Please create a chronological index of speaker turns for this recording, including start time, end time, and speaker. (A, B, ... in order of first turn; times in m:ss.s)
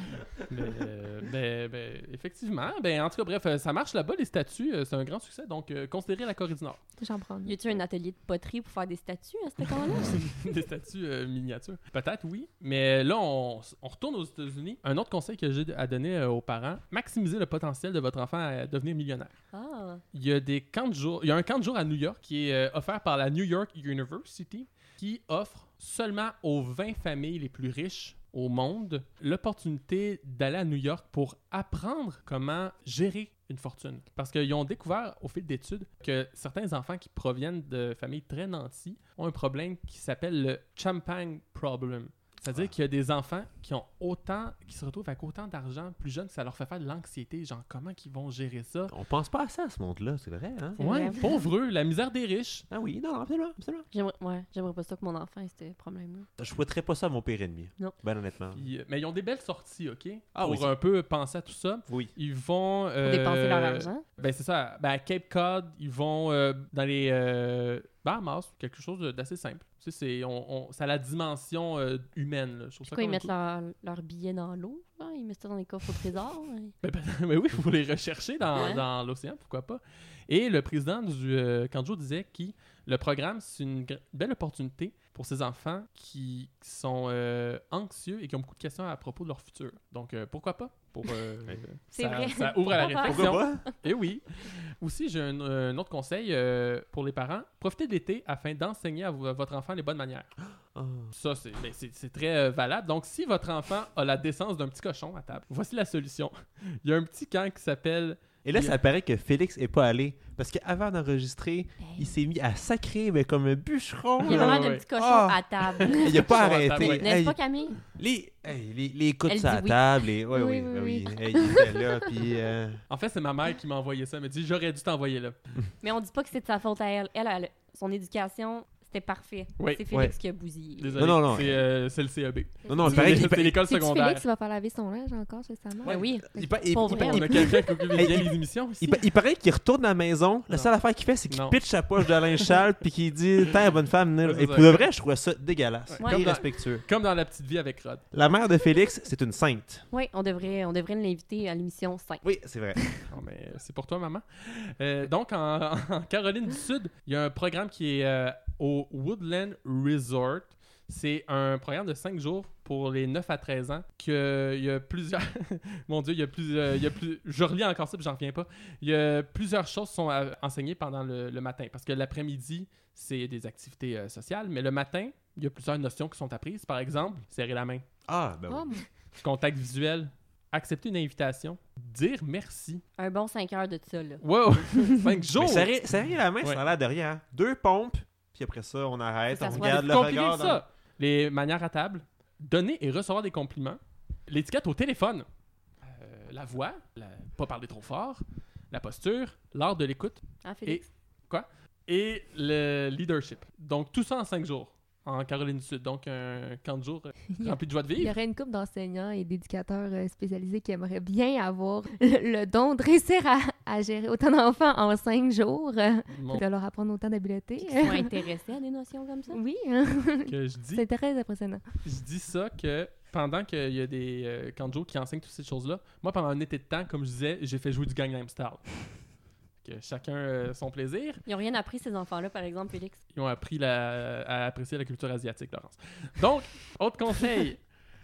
0:00.4-0:06.8 A
0:07.0-0:07.6 B
0:07.4-0:10.3 C
0:10.0-0:19.4 A
0:19.5-0:20.0 C
0:20.1-0:48.9 A
0:48.9-0:50.8 D
0:50.8-0:51.5 C
0:50.8-0:52.7 A
0:52.7-0:53.9 D
0:53.9-0:56.3 C
0:56.4-0:58.6 D
0:58.6-1:13.3 A
1:00.4-1:00.7 D
1:03.0-1:04.0 C
1:12.9-1:16.7 C
1:16.8-1:40.3 A
1:18.5-1:18.8 C
1:31.9-1:33.8 C
1:33.0-1:33.6 D
1:40.7-1:41.1 D
1:41.1-1:48.8 A
1:48.4-2:02.8 D
1:51.8-1:52.1 C
1:54.2-1:57.8 C
1:54.2-1:54.9 A
1:55.7-1:57.1 A
1:59.3-1:59.9 C
2:00.3-2:02.0 B
2:02.9-2:05.4 A
2:05.8-2:11.2 C
2:09.6-2:09.8 A
2:10.8-2:14.2 A
2:11.0-2:11.6 D
2:12.7-2:16.5 B
2:12.7-2:13.6 D
2:15.8-2:17.6 C
2:15.8-2:26.8 D
2:16.9-2:19.0 A
2:21.3-2:22.6 A
2:24.2-2:24.9 A
2:25.9-2:28.0 A
2:26.0-2:26.3 C
2:28.1-2:29.8 D
2:29.9-2:32.2 C
2:32.2-2:32.8 D
2:33.1-2:57.8 A
2:58.1-2:58.8 D
2:58.5-2:58.8 B
2:59.2-3:02.8 A
3:03.0-3:04.2 C
3:04.2-3:05.7 A
3:05.4-3:10.6 D
3:09.3-3:09.9 C
3:09.5-3:15.3 A
3:15.8-3:28.2 A
3:20.4-3:20.9 C
3:27.3-3:38.2 B
3:36.1-3:36.4 A
3:37.6-3:39.4 C
3:39.3-3:41.6 B
3:40.3-3:40.8 A
3:41.8-3:48.9 A
3:49.6-3:51.2 A
3:51.3-3:53.0 C
3:53.1-3:57.6 A